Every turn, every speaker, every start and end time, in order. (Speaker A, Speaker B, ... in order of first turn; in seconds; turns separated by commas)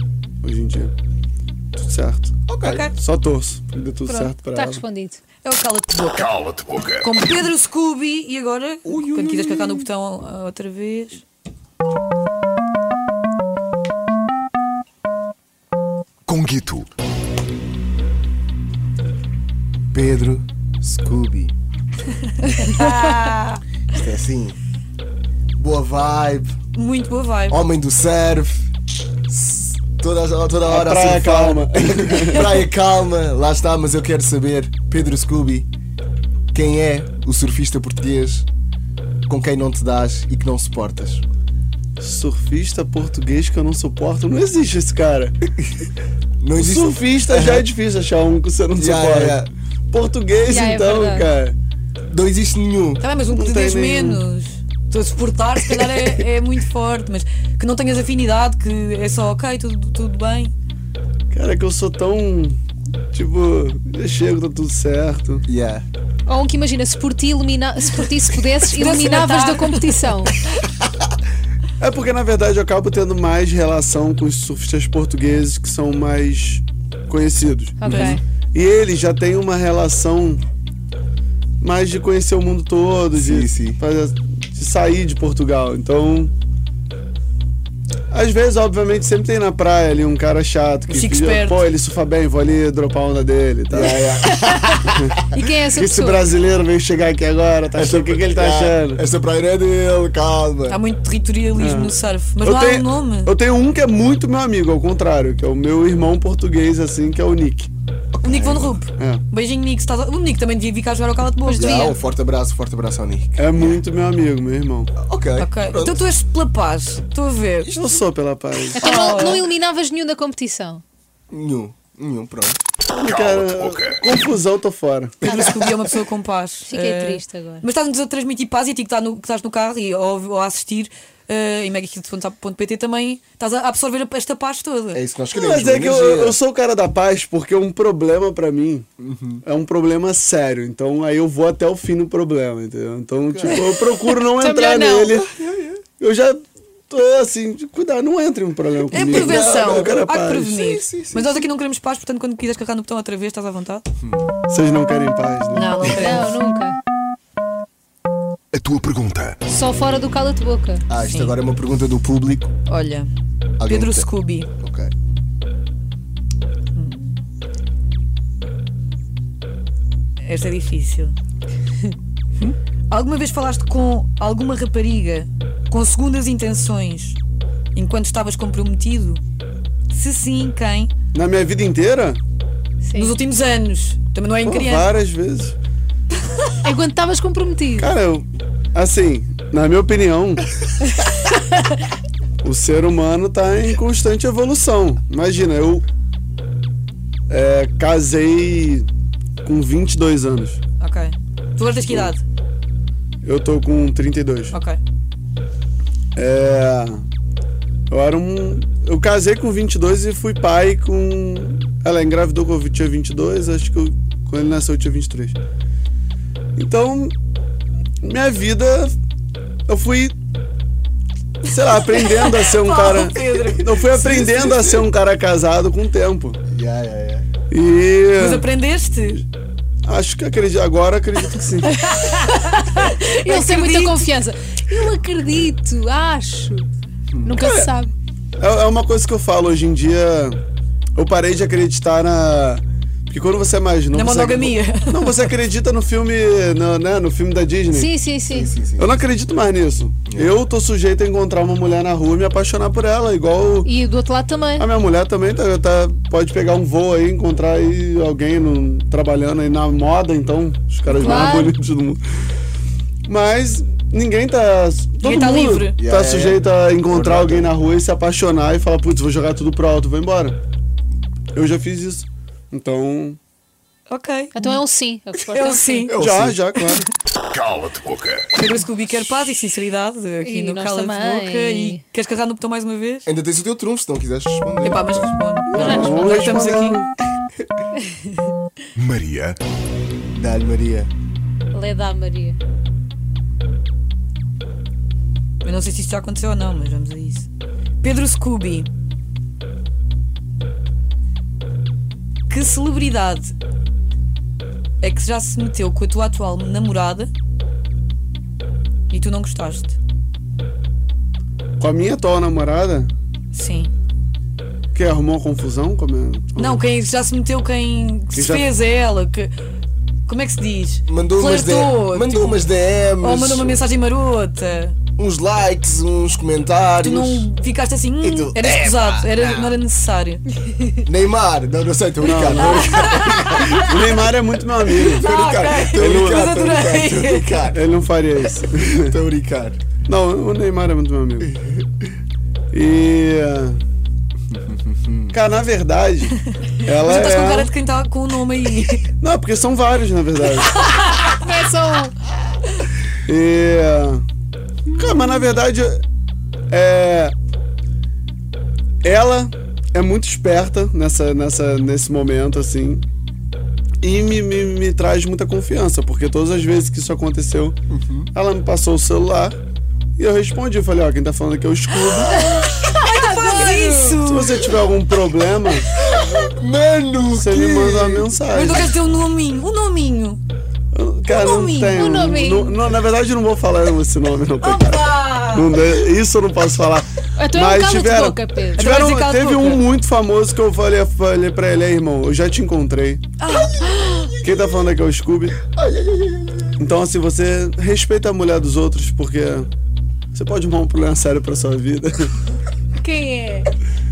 Speaker A: 0.4-0.9, Speaker A: 1.7-4.8, Speaker B: 2.5-2.9, Speaker C: 2.6-2.9, Speaker C: 4.0-4.3, Speaker D: 4.4-5.2, Speaker C: 5.4-11.2, Speaker E: 6.2-7.0, Speaker B: 8.8-9.8, Speaker E: 16.3-16.9, Speaker B: 19.9-21.5, Speaker C: 22.4-23.6, Speaker B: 23.9-24.6, Speaker B: 25.6-26.5, Speaker C: 26.7-27.6, Speaker B: 27.5-28.6, Speaker B: 29.3-35.7, Speaker A: 30.6-32.5, Speaker B: 36.5-38.5, Speaker B: 39.3-41.2, Speaker A: 42.0-45.3, Speaker B: 46.4-47.7, Speaker A: 46.5-51.5, Speaker B: 48.8-49.5, Speaker D: 50.4-51.3, Speaker B: 52.1-53.0, Speaker C: 53.0-60.5, Speaker A: 53.3-54.2, Speaker B: 55.8-56.1, Speaker A: 61.3-62.6, Speaker A: 63.1-65.4, Speaker B: 65.5-65.8, Speaker D: 66.3-70.3, Speaker C: 68.6-70.1, Speaker A: 71.8-80.4, Speaker D: 77.8-78.2, Speaker C: 77.9-78.2, Speaker A: 81.6-86.3, Speaker B: 83.1-83.8, Speaker A: 88.1-94.0, Speaker C: 90.9-91.6, Speaker B: 93.7-95.2, Speaker D: 95.3-96.2, Speaker A: 95.7-99.0, Speaker B: 97.8-100.8, Speaker C: 100.7-103.3, Speaker A: 101.5-107.7, Speaker B: 108.1-108.9, Speaker C: 108.2-111.9, Speaker A: 108.9-109.2, Speaker D: 111.5-112.0, Speaker B: 111.5-113.8, Speaker A: 113.3-114.9, Speaker B: 115.0-116.0, Speaker C: 115.4-117.7, Speaker B: 117.7-118.0, Speaker A: 117.7-118.8, Speaker D: 118.7-120.8, Speaker C: 118.8-119.5, Speaker B: 121.3-122.6, Speaker A: 122.9-125.2, Speaker E: 123.0-124.0, Speaker D: 125.2-125.7, Speaker C: 125.2-135.0, Speaker B: 125.3-125.7, Speaker D: 126.6-127.6, Speaker B: 134.9-136.4, Speaker A: 135.3-138.9, Speaker B: 139.0-139.4, Speaker A: 139.4-145.2, Speaker B: 143.3-144.0, Speaker D: 144.1-145.2, Speaker B: 145.2-145.8, Speaker A: 145.9-150.5, Speaker C: 148.9-153.8, Speaker B: 148.9-151.4, Speaker B: 154.0-154.3, Speaker A: 154.5-155.9, Speaker C: 155.5-156.4, Speaker D: 155.8-156.8, Speaker E: 158.5-159.4, Speaker D: 159.5-160.8, Speaker B: 160.9-162.5, Speaker C: 160.9-161.4, Speaker C: 162.7-163.1, Speaker B: 163.6-164.1, Speaker C: 163.6-164.5, Speaker B: 164.6-164.9, Speaker C: 166.7-167.2, Speaker C: 170.2-171.2, Speaker C: 172.9-177.2, Speaker C: 177.7-179.2, Speaker C: 179.9-180.9, Speaker A: 181.1-182.2, Speaker D: 182.8-183.2, Speaker C: 182.9-184.9, Speaker A: 184.4-185.6, Speaker D: 186.6-187.9, Speaker A: 187.8-190.4, Speaker A: 192.4-195.8, Speaker A: 197.3-198.9, Speaker A: 199.4-200.6, Speaker C: 200.8-202.2, Speaker A: 203.2-204.6, Speaker C: 204.5-204.8, Speaker A: 206.1-207.0, Speaker A: 207.9-215.4, Speaker A: 216.6-217.1, Speaker A: 218.0-218.9, Speaker A: 219.7-220.2, Speaker A: 221.4-226.4, Speaker C: 221.5-224.2, Speaker B: 224.0-224.8, Speaker B: 226.5-227.3, Speaker A: 227.5-228.5, Speaker C: 228.2-229.2, Speaker A: 229.8-231.7, Speaker C: 231.6-234.1, Speaker D: 232.0-236.7, Speaker B: 237.2-237.4, Speaker D: 237.2-237.9, Speaker A: 237.4-237.7, Speaker A: 238.4-240.4, Speaker A: 240.9-247.9, Speaker C: 243.9-245.2, Speaker D: 247.7-248.5, Speaker B: 248.3-249.0, Speaker A: 248.6-253.7, Speaker B: 250.1-250.3, Speaker D: 253.6-254.7, Speaker A: 254.6-262.0, Speaker D: 260.9-261.5, Speaker C: 261.1-261.3, Speaker A: 263.1-270.4, Speaker C: 265.0-265.8, Speaker B: 265.8-267.5, Speaker A: 271.3-273.2, Speaker C: 273.9-274.6, Speaker D: 274.3-276.0, Speaker C: 275.3-276.0, Speaker B: 275.9-276.4, Speaker A: 275.9-276.9, Speaker E: 277.3-278.2, Speaker C: 278.3-283.1, Speaker D: 280.2-281.8, Speaker B: 283.1-285.1, Speaker C: 284.6-286.8, Speaker D: 285.5-286.4, Speaker A: 285.6-286.9, Speaker E: 288.8-289.4, Speaker B: 290.1-290.9, Speaker D: 291.5-292.4, Speaker C: 295.4-297.3, Speaker C: 297.8-298.7, Speaker C: 302.3-303.3, Speaker C: 304.8-307.1, Speaker C: 308.9-309.8, Speaker A: 311.6-312.9, Speaker C: 313.3-313.7, Speaker A: 314.7-316.6, Speaker C: 316.4-319.3, Speaker A: 318.1-318.5, Speaker C: 320.1-322.4, Speaker B: 320.9-323.7, Speaker C: 323.0-324.8, Speaker B: 325.0-327.3, Speaker C: 326.8-330.7, Speaker B: 328.0-329.5, Speaker B: 330.8-333.9, Speaker A: 332.0-332.9, Speaker C: 332.3-333.6, Speaker A: 333.5-335.0, Speaker B: 334.7-337.6, Speaker C: 334.9-337.4, Speaker A: 335.7-336.3, Speaker A: 337.5-338.9, Speaker B: 338.3-339.7, Speaker A: 339.8-341.4, Speaker B: 341.3-341.6, Speaker A: 342.5-343.6, Speaker B: 344.4-345.1, Speaker A: 345.1-347.5, Speaker C: 346.6-348.9, Speaker A: 349.0-350.5, Speaker D: 350.6-352.0, Speaker A: 353.1-354.0, Speaker A: 354.7-355.8, Speaker A: 356.5-357.1, Speaker A: 358.8-362.9, Speaker A: 363.8-367.6, Speaker B: 367.7-368.1, Speaker A: 368.1-369.4, Speaker A: 370.0-372.2, Speaker C: 371.9-374.4, Speaker D: 372.2-374.0, Speaker A: 374.0-375.7, Speaker B: 375.8-378.1, Speaker A: 377.1-378.7, Speaker C: 378.3-380.2, Speaker A: 380.7-393.0, Speaker C: 381.1-382.0, Speaker D: 381.7-382.8, Speaker C: 384.4-385.7, Speaker D: 387.1-388.7, Speaker C: 388.5-389.6, Speaker C: 393.2-394.1, Speaker B: 393.4-394.7, Speaker A: 394.2-395.5, Speaker B: 395.5-396.6, Speaker A: 396.6-399.5, Speaker A: 400.1-402.1, Speaker D: 402.8-403.5